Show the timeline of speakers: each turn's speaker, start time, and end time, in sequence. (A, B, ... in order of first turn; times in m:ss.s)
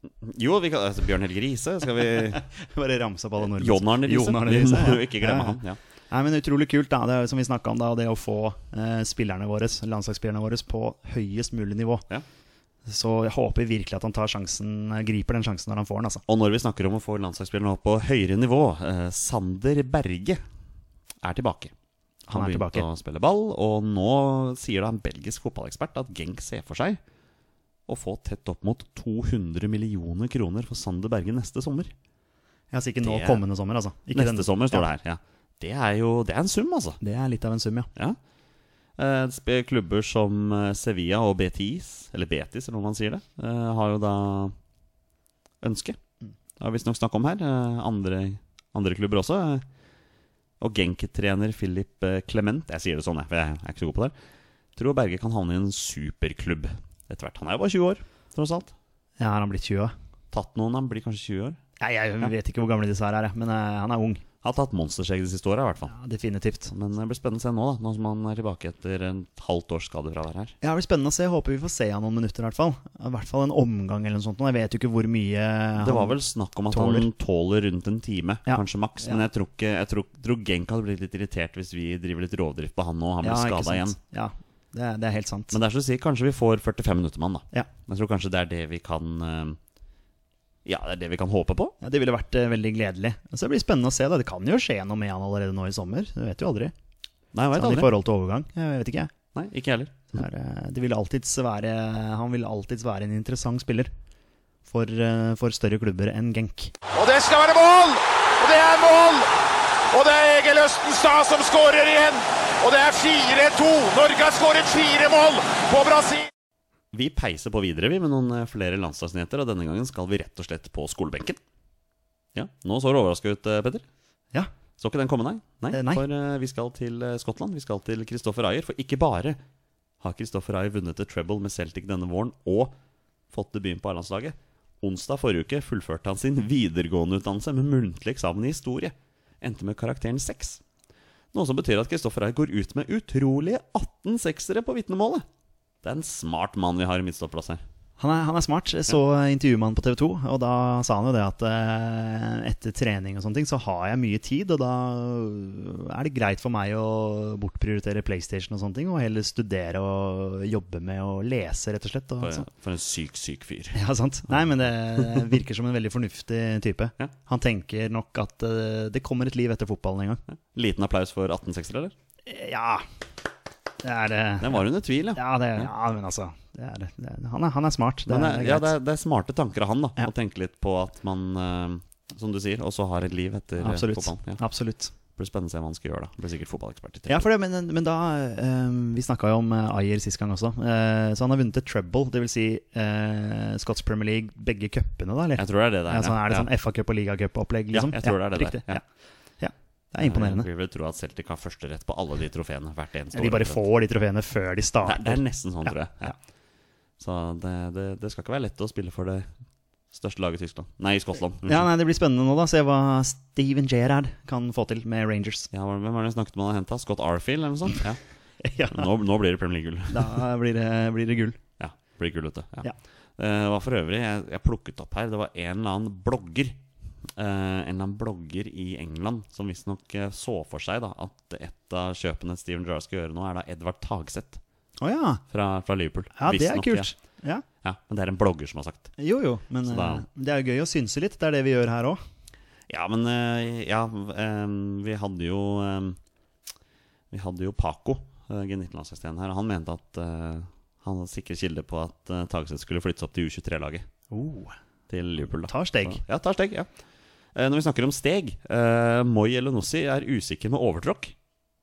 0:00.2-0:02.4 A
0:02.3-0:12.1 B
0:03.4-0:05.8 A
0:12.9-0:16.2 B
0:16.3-0:20.4 A
0:21.2-0:21.7 A
0:22.3-0:22.9 B
0:22.3-0:27.0 A
0:27.9-0:31.9 A
0:32.7-0:34.9 B
0:33.0-0:33.4 A
0:34.1-0:37.0 A
0:37.0-0:37.9 B
0:39.0-0:44.6 A
0:45.6-0:46.0 A
0:46.6-0:49.6 A
0:50.6-0:54.1 A
0:54.8-0:58.7 A
0:59.2-0:59.9 B
1:00.3-1:01.6 A
1:01.8-1:04.2 B
1:04.4-1:05.9 A
1:05.9-1:06.7 B
1:06.7-1:10.6 A
1:10.6-1:16.2 B
1:15.8-1:24.0 A
1:16.7-1:17.1 B
1:18.5-1:19.2 B
1:23.2-1:25.6 B
1:25.5-1:29.6 A
1:30.6-1:31.8 A
1:31.8-1:36.7 B
1:37.3-1:37.9 A
1:37.5-1:39.1 B
1:39.3-1:40.1 A
1:40.1-1:43.9 B
1:44.7-1:46.7 B
1:46.9-1:49.4 C
1:49.9-1:56.3 C
1:56.9-2:01.4 A
2:02.3-2:03.8 A
2:04.8-2:09.4 A
2:05.7-2:06.0 B
2:10.0-2:12.8 A
2:13.3-2:20.6 A
2:21.3-2:25.3 A
2:25.8-2:27.6 A
2:28.0-2:42.5 B
2:42.2-2:43.8 A
2:43.7-2:50.2 B
2:44.3-2:45.3 A
2:50.3-2:51.9 A
2:52.3-2:52.8 B
2:53.8-2:58.7 B
2:54.4-2:55.7 A
2:58.1-3:04.4 A
3:03.6-3:04.9 B
3:05.1-3:07.3 A
3:07.1-3:18.8 B
3:15.4-3:16.5 A
3:17.7-3:18.8 A
3:19.4-3:20.5 B
3:20.0-3:23.6 A
3:23.1-3:26.2 B
3:24.8-3:26.1 A
3:27.0-3:29.3 A
3:29.9-3:31.7 A
3:31.4-3:35.5 B
3:35.5-3:38.0 A
3:38.4-3:38.9 B
3:38.7-3:40.2 A
3:39.9-3:41.4 B
3:41.6-3:46.6 A
3:47.2-3:54.4 A
3:54.8-3:55.2 B
3:55.3-3:56.9 A
3:56.2-3:57.4 B
3:57.6-3:58.9 A
3:59.0-4:02.0 B
3:59.6-4:00.0 A
4:02.7-4:06.0 A
4:07.1-4:13.9 A
4:14.1-4:14.6 B
4:14.9-4:16.7 A
4:15.5-4:16.0 B
4:17.4-4:21.1 A